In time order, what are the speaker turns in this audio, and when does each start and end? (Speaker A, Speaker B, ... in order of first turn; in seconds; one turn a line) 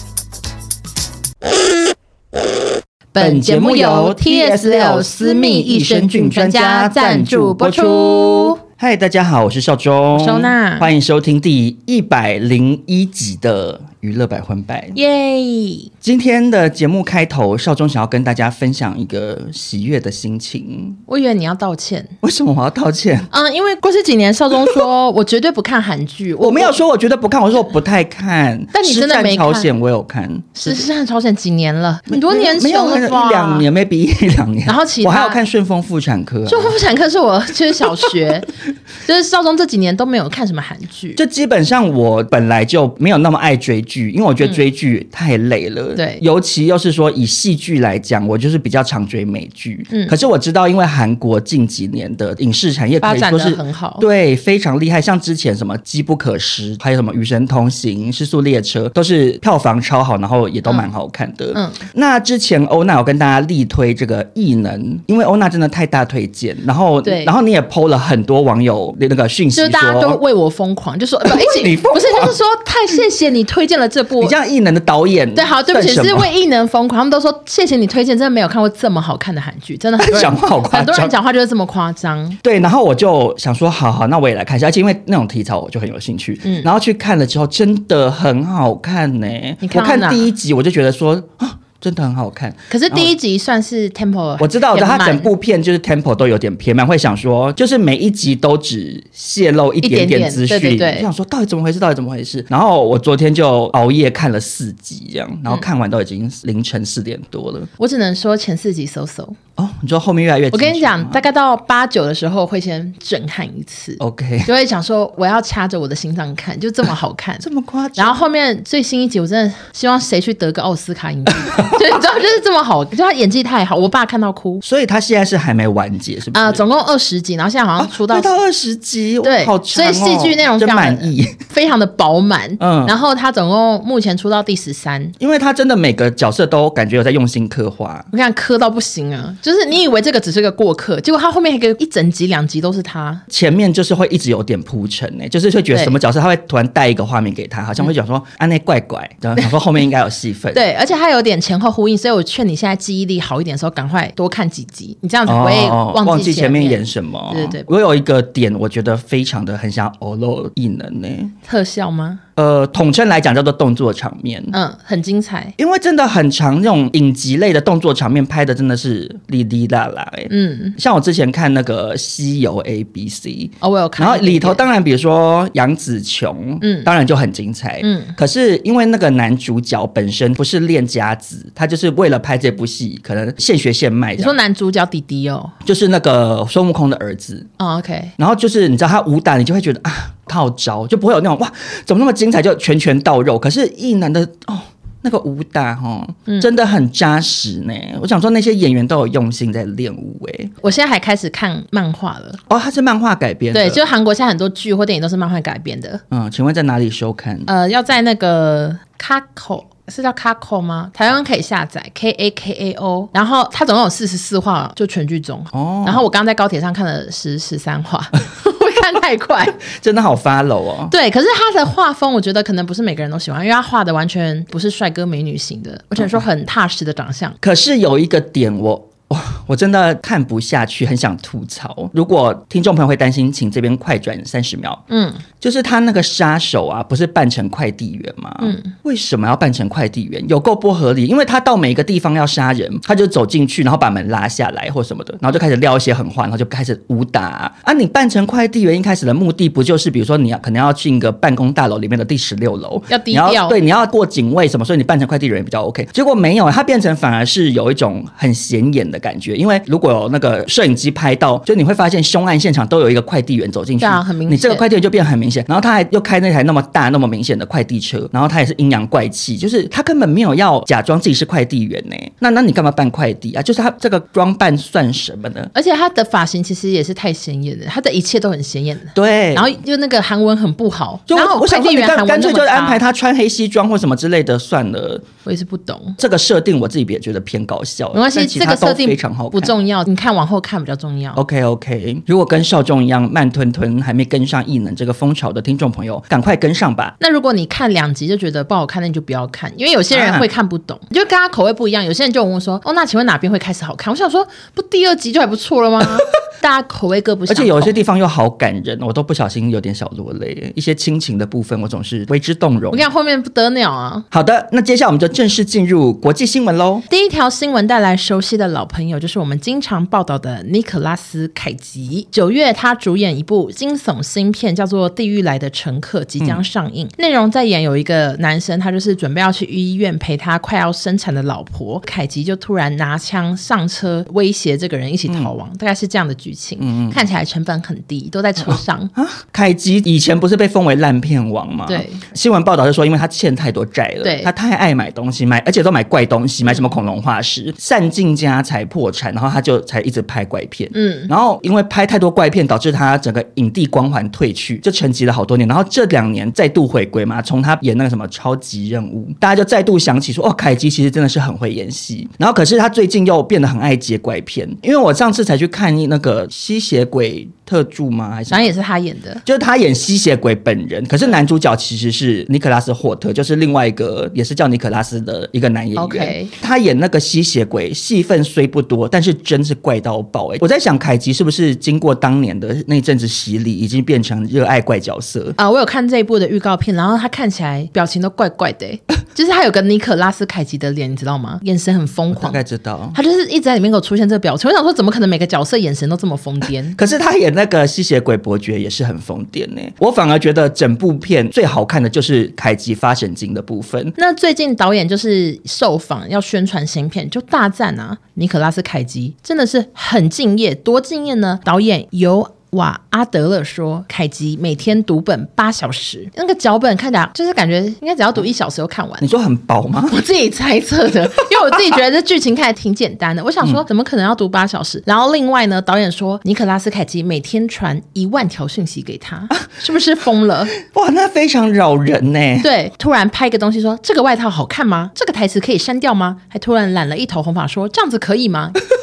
Speaker A: 3.1-8.6
Speaker B: 3.2-15.0
Speaker A: 10.1-10.9
Speaker A: 14.9-15.9
Speaker B: 16.0-21.0
Speaker A: 21.1-22.1
Speaker B: 22.2-23.3
Speaker A: 23.3-26.8
Speaker B: 24.5-24.9
Speaker B: 26.4-30.9
Speaker A: 28.7-29.7
Speaker A: 30.6-33.7
Speaker B: 32.1-36.8
Speaker A: 34.6-35.4
Speaker A: 36.5-38.5
Speaker A: 39.0-41.2
Speaker B: 41.2-70.2
Speaker A: 45.9-46.2
Speaker A: 49.9-50.1
Speaker A: 53.0-54.0
Speaker A: 60.7-60.9
Speaker A: 61.5-61.8
Speaker A: 67.0-67.3
Speaker A: 69.5-74.3
Speaker B: 71.2-72.3
Speaker B: 74.2-76.3
Speaker A: 75.3-82.4
Speaker B: 80.0-81.1
Speaker B: 82.4-93.1
Speaker A: 89.6-90.3
Speaker A: 92.7-95.3
Speaker B: 94.4-107.7
Speaker A: 99.8-101.1
Speaker A: 107.8-109.4
Speaker B: 109.6-111.2
Speaker A: 110.5-117.4
Speaker B: 114.0-114.5
Speaker B: 117.4-118.2
Speaker A: 118.0-124.6
Speaker B: 121.4-121.8
Speaker B: 124.6-126.6
Speaker A: 126.3-128.3
Speaker B: 127.8-131.4
Speaker A: 129.2-135.1
Speaker B: 132.6-132.9
Speaker B: 135.2-138.1
Speaker A: 138.1-143.2
Speaker B: 143.3-150.6
Speaker A: 150.5-157.7
Speaker B: 155.2-161.3
Speaker A: 161.4-162.2
Speaker B: 162.3-164.5
Speaker A: 164.5-165.5
Speaker B: 165.6-184.4
Speaker A: 170.3-170.8
Speaker A: 173.6-174.6
Speaker A: 176.6-176.9
Speaker A: 177.8-178.2
Speaker A: 184.2-185.5
Speaker B: 185.6-187.5
Speaker A: 187.6-188.1
Speaker B: 188.2-200.5
Speaker A: 200.6-202.4
Speaker B: 202.5-203.8
Speaker A: 203.5-206.0
Speaker B: 206.1-207.5
Speaker A: 207.5-219.6
Speaker B: 215.5-216.0
Speaker B: 219.6-220.9
Speaker A: 220.9-227.4
Speaker B: 227.4-234.8
Speaker A: 234.9-235.2
Speaker B: 235.4-275.5
Speaker A: 238.4-238.7
Speaker A: 252.9-253.5
Speaker A: 263.8-264.6
Speaker A: 275.5-282.8
Speaker B: 278.9-279.5
Speaker B: 281.1-285.0
Speaker A: 285.2-286.0
Speaker B: 286.0-289.5
Speaker A: 287.9-291.2
Speaker B: 291.1-296.9
Speaker A: 297.0-307.8
Speaker B: 299.9-300.3
Speaker B: 307.3-312.9
Speaker A: 312.7-314.1
Speaker B: 314.1-316.8
Speaker A: 316.9-338.9
Speaker B: 335.1-335.3
Speaker B: 336.6-337.0
Speaker B: 338.4-368.5
Speaker A: 341.7-342.0
Speaker A: 344.0-344.3
Speaker A: 350.7-351.1
Speaker A: 368.3-369.2
Speaker B: 369.2-385.4
Speaker A: 375.8-376.3
Speaker A: 385.4-392.4
Speaker B: 392.1-393.0
Speaker A: 392.9-396.8
Speaker B: 396.8-403.9
Speaker A: 403.9-419.1
Speaker B: 419.0-420.0
Speaker A: 419.8-430.5
Speaker B: 430.6-432.5
Speaker A: 432.4-438.6